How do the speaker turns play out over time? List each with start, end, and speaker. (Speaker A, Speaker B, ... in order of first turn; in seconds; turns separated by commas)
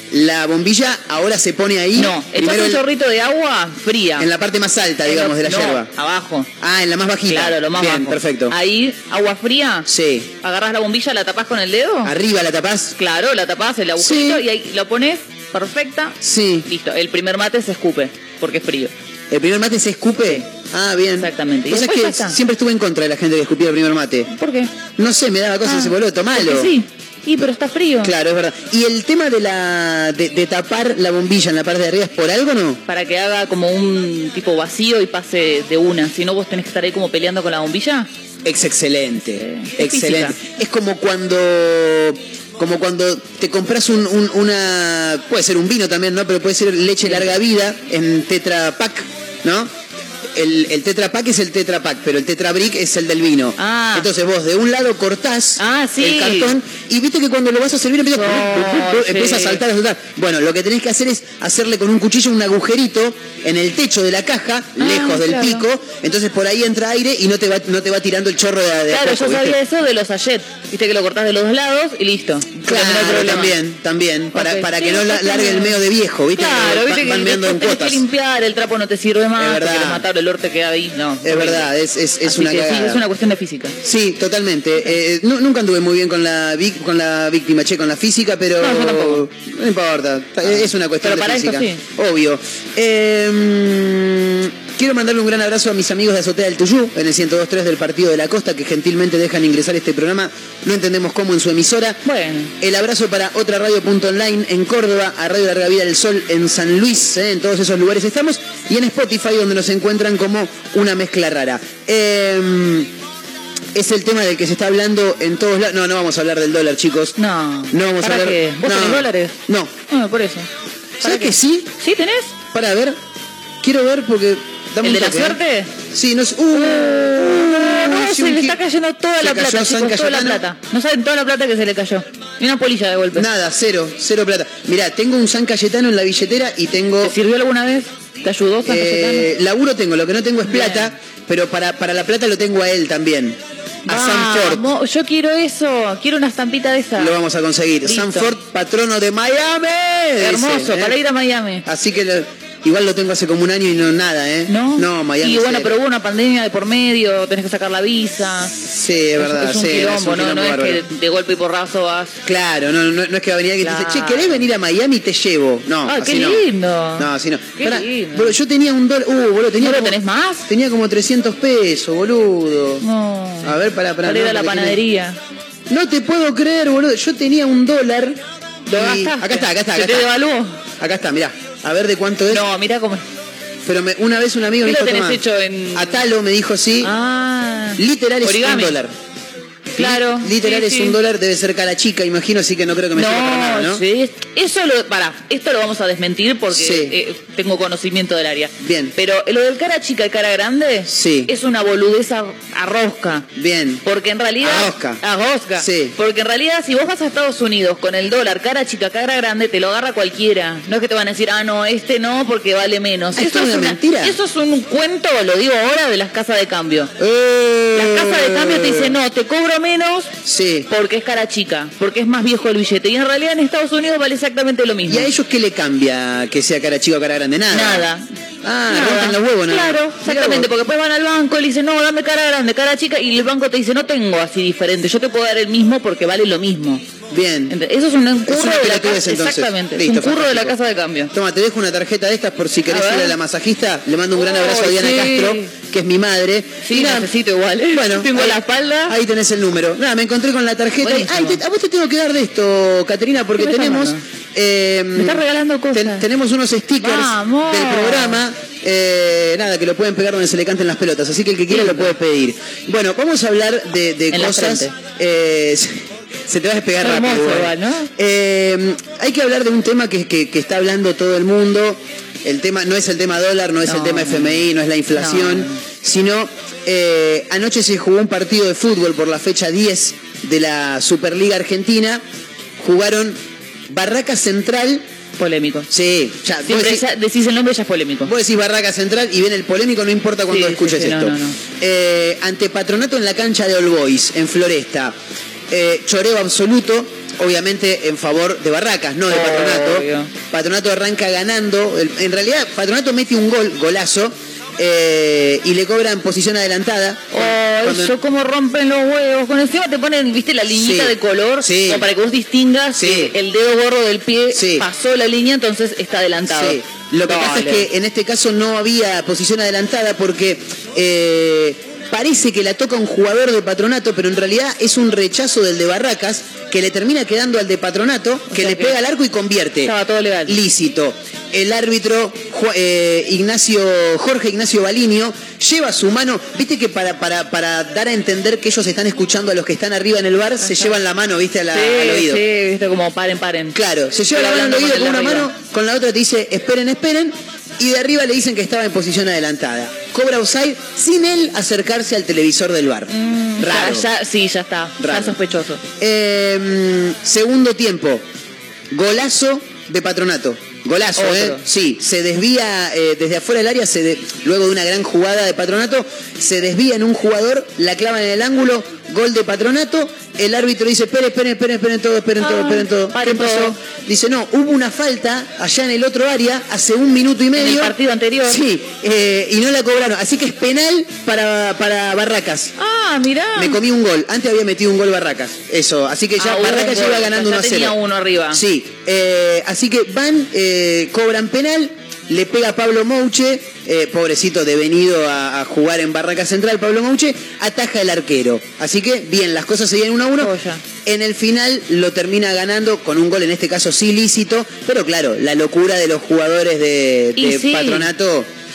Speaker A: 0.1-2.8, Speaker B: 1.9-4.3, Speaker A: 4.2-5.9, Speaker B: 5.0-6.5, Speaker A: 6.6-8.6, Speaker B: 7.3-9.9, Speaker A: 9.9-10.3, Speaker B: 10.4-12.2, Speaker A: 12.1-13.0, Speaker B: 13.0-18.9, Speaker A: 14.0-14.4, Speaker A: 16.2-16.7, Speaker A: 19.3-24.3, Speaker B: 21.2-22.4, Speaker B: 24.3-24.7, Speaker A: 25.0-26.7, Speaker B: 25.6-28.1, Speaker A: 28.0-32.8, Speaker B: 32.9-38.1, Speaker A: 38.5-49.7, Speaker B: 39.2-40.4, Speaker A: 50.4-69.6, Speaker B: 53.6-54.1, Speaker B: 55.6-56.5, Speaker B: 58.1-59.6, Speaker B: 64.8-65.7, Speaker B: 68.9-73.6, Speaker A: 72.6-78.0, Speaker B: 74.3-75.8, Speaker B: 76.3-81.7, Speaker A: 79.4-80.1, Speaker A: 81.2-83.0, Speaker B: 82.2-83.8, Speaker A: 83.8-102.0, Speaker B: 88.6-89.2, Speaker B: 90.5-91.8, Speaker B: 102.0-102.5, Speaker A: 102.6-112.9, Speaker A: 113.7-117.2, Speaker B: 117.2-119.4, Speaker A: 117.7-119.7, Speaker B: 119.9-120.5, Speaker A: 121.0-121.7, Speaker B: 121.0-122.3, Speaker A: 122.5-123.0, Speaker A: 123.6-125.4, Speaker B: 124.8-125.7, Speaker A: 125.9-128.6, Speaker B: 126.5-133.3, Speaker A: 129.2-130.4, Speaker A: 133.2-137.2, Speaker B: 137.0-139.3, Speaker A: 138.7-144.7, Speaker B: 140.5-140.9, Speaker B: 143.9-147.2, Speaker A: 147.0-151.0, Speaker B: 147.8-148.3, Speaker B: 150.2-151.7, Speaker A: 151.7-155.8, Speaker B: 154.5-158.6, Speaker A: 158.6-160.8, Speaker B: 159.2-162.2, Speaker A: 162.2-166.4, Speaker B: 163.6-164.4, Speaker B: 165.9-168.3, Speaker A: 167.0-172.8, Speaker B: 169.6-170.5, Speaker B: 172.8-175.2, Speaker A: 173.4-174.8, Speaker A: 175.7-180.1, Speaker B: 178.7-180.6, Speaker A: 180.8-182.4, Speaker B: 182.3-183.0, Speaker A: 183.7-185.2, Speaker B: 184.6-186.0, Speaker A: 185.7-186.9, Speaker B: 186.8-188.8, Speaker A: 187.8-188.9, Speaker B: 189.8-191.0, Speaker A: 189.8-193.8, Speaker B: 192.9-203.3, Speaker A: 196.5-197.0, Speaker A: 198.6-198.9, Speaker A: 200.9-201.3, Speaker A: 203.3-203.8, Speaker B: 203.8-216.9, Speaker A: 204.4-205.0, Speaker A: 205.6-205.9, Speaker A: 213.2-214.2, Speaker A: 217.0-219.0, Speaker B: 217.7-220.1, Speaker A: 220.2-220.7, Speaker B: 220.7-225.1, Speaker A: 224.9-227.8, Speaker B: 227.5-228.0, Speaker A: 228.4-230.5, Speaker B: 228.7-236.8, Speaker A: 237.1-237.6, Speaker B: 237.5-241.1, Speaker A: 238.3-240.6, Speaker A: 241.1-247.1, Speaker B: 242.7-243.2, Speaker B: 244.1-245.5, Speaker B: 246.6-249.0, Speaker A: 247.7-282.0, Speaker B: 250.8-251.4, Speaker B: 253.4-254.0, Speaker B: 254.9-256.1, Speaker B: 256.8-258.2, Speaker B: 261.5-261.9, Speaker B: 264.1-264.8, Speaker B: 266.8-267.9, Speaker B: 273.6-275.6, Speaker A: 282.6-284.9, Speaker B: 285.2-285.7, Speaker A: 285.7-286.8, Speaker B: 286.4-288.1, Speaker A: 288.1-295.0, Speaker B: 290.3-291.4, Speaker A: 295.5-307.9, Speaker B: 299.1-300.1, Speaker B: 307.1-317.7, Speaker A: 310.5-311.9, Speaker A: 312.8-313.1, Speaker A: 314.3-314.7, Speaker A: 316.3-329.7, Speaker B: 328.3-328.8, Speaker B: 329.6-330.4, Speaker A: 330.3-342.2, Speaker B: 340.4-340.7, Speaker B: 341.5-343.6, Speaker A: 343.5-353.9, Speaker B: 344.1-345.3, Speaker B: 352.9-355.6, Speaker A: 354.8-355.2, Speaker A: 355.8-358.1, Speaker A: 358.7-382.6, Speaker B: 361.0-361.4, Speaker B: 372.2-373.6, Speaker B: 377.4-378.4, Speaker B: 382.6-383.6, Speaker A: 383.4-387.8, Speaker B: 386.2-388.4, Speaker A: 388.3-400.3, Speaker B: 400.2-400.6, Speaker A: 400.9-408.3, Speaker B: 407.1-407.9